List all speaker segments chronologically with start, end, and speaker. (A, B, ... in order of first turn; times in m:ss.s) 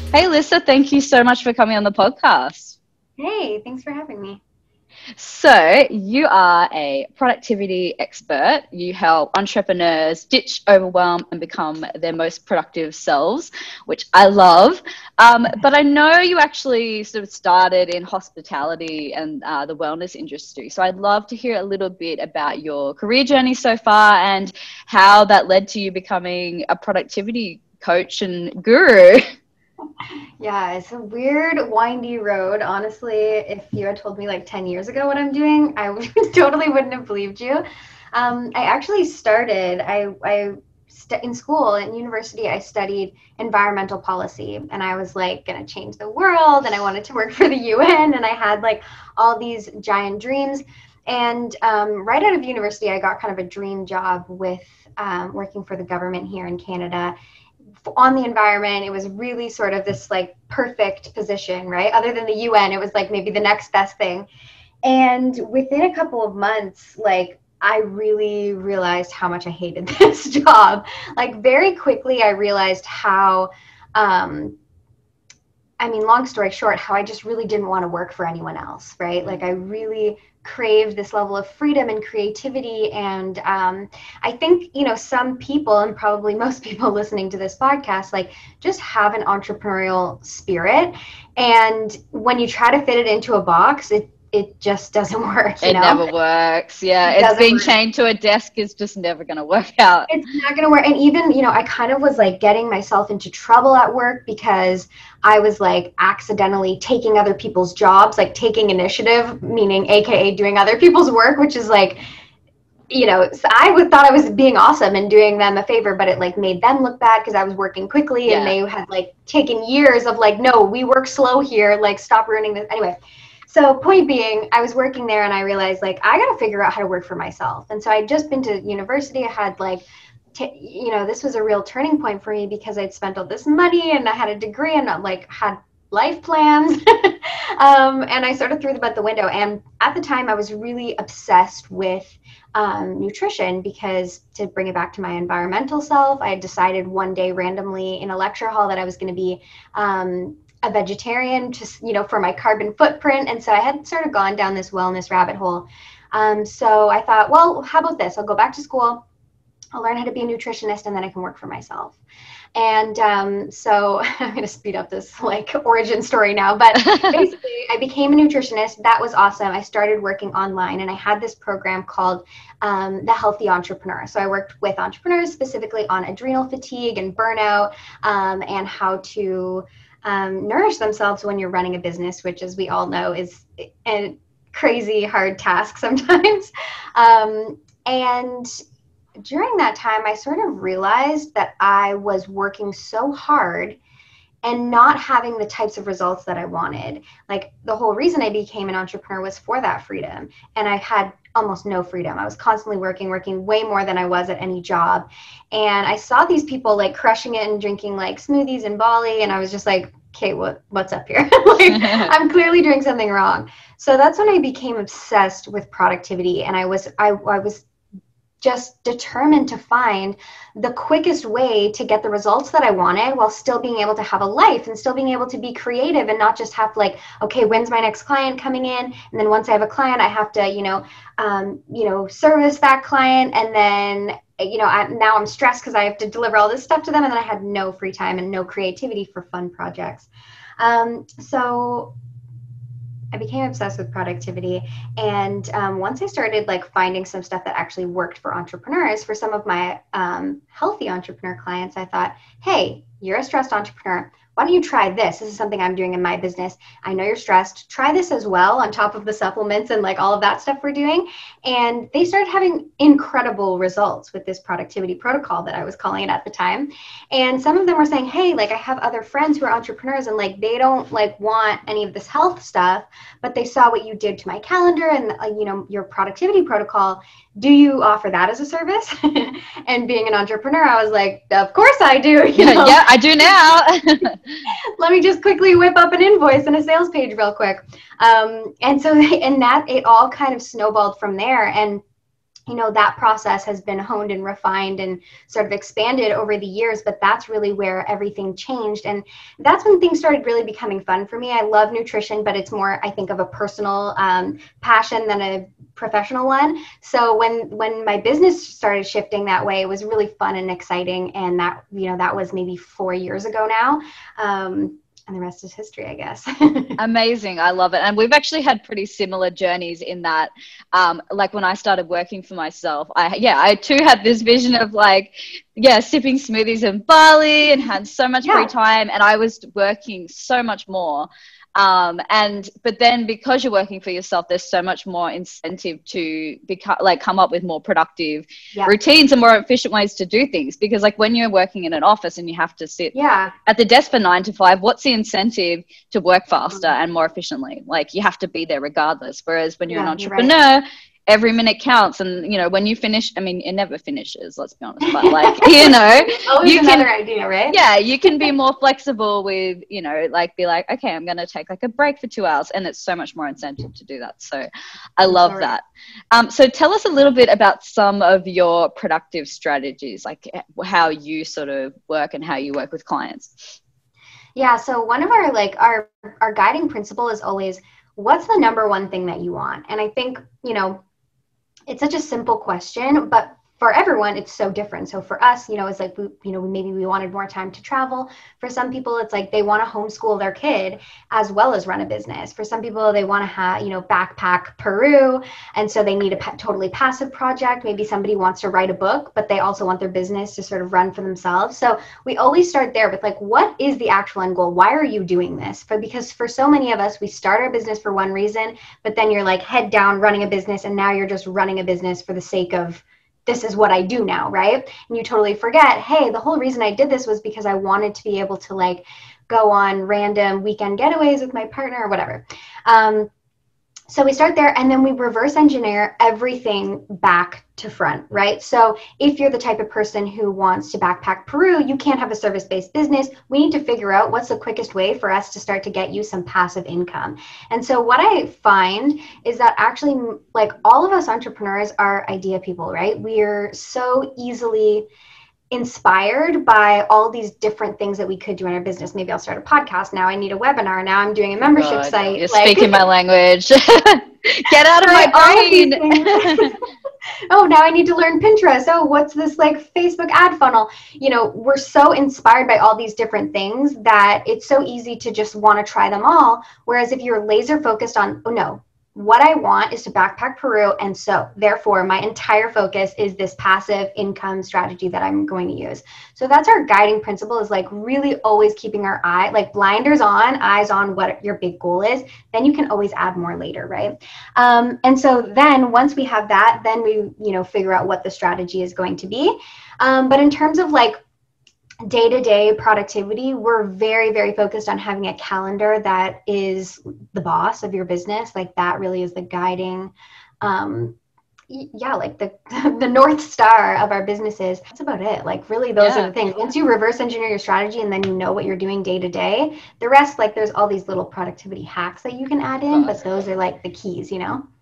0:00.1-0:02.8 A
0:03.2-0:04.4 B
0:05.2-0:29.2 A
0:30.4-0:57.2 B
0:57.9-1:04.3 B
1:04.8-1:14.6 B
1:15.8-1:36.0 B
1:35.6-1:40.1 A
1:37.0-1:37.7 B
1:40.1-1:52.0 B
1:52.9-2:39.0 B
1:58.3-1:58.6 A
2:39.8-2:42.0 B
2:42.6-3:08.5 B
2:46.9-2:47.2 A
3:09.2-3:13.8 B
3:14.4-3:37.6 B
3:31.7-3:32.1 A
3:38.4-4:00.1 B
4:00.6-4:01.9 B
4:03.1-4:42.9 B
4:42.4-4:44.2 A
4:44.8-4:51.8 B
4:52.5-5:16.8 B
5:16.8-5:43.0 A
5:28.2-5:28.5 B
5:42.9-5:43.3 B
5:43.5-5:56.9 A
5:49.7-5:50.4 B
5:54.8-5:57.6 B
5:57.5-6:04.5 A
6:05.0-6:13.6 A
6:05.0-6:05.5 B
6:14.4-6:20.8 B
6:21.7-7:03.1 B
7:03.9-7:24.9 B
7:25.5-7:32.7 B
7:31.5-7:36.5 A
7:34.8-7:36.6 B
7:37.3-8:11.0 B
8:11.8-8:21.0 B
8:21.5-8:34.4 B
8:25.8-8:26.1 A
8:32.7-8:33.0 A